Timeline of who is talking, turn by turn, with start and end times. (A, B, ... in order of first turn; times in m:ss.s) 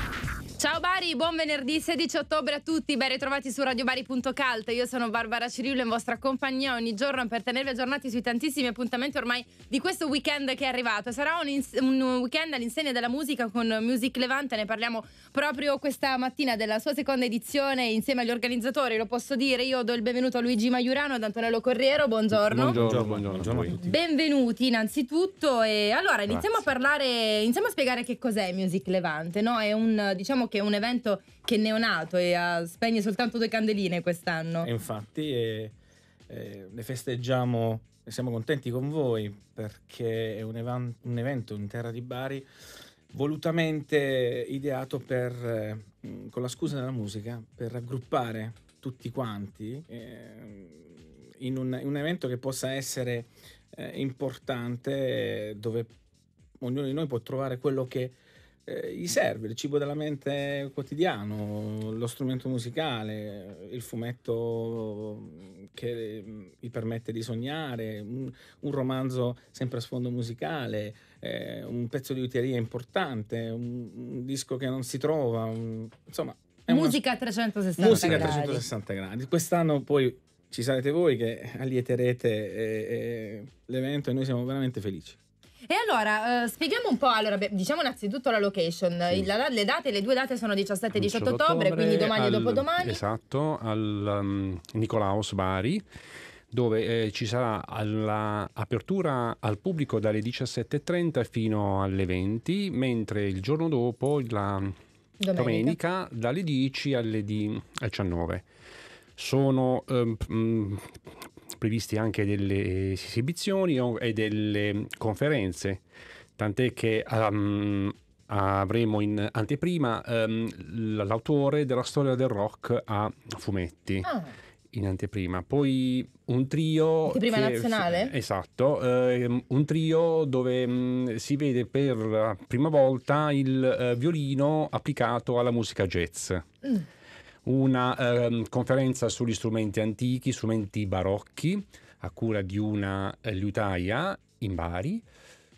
0:00.6-0:22.8 A
0:22.3-0:23.8 B
0:22.7-0:24.0 C
0:23.7-0:34.7 A
0:26.3-0:26.7 B
0:34.6-0:35.7 C
0:36.3-0:42.5 C
0:43.1-0:55.9 C
0:56.6-1:17.0 C
1:16.7-1:18.6 A
1:17.8-1:25.2 C
1:17.8-1:18.4 B
1:25.7-1:33.0 A
1:30.9-1:35.8 B
1:36.5-1:44.7 B
1:45.2-1:45.8 A
1:45.3-1:48.4 B
1:49.2-1:55.8 B
1:56.4-2:04.1 B
2:04.0-2:04.3 A
2:04.7-2:16.5 B
2:07.0-2:08.1 A
2:17.4-2:25.0 B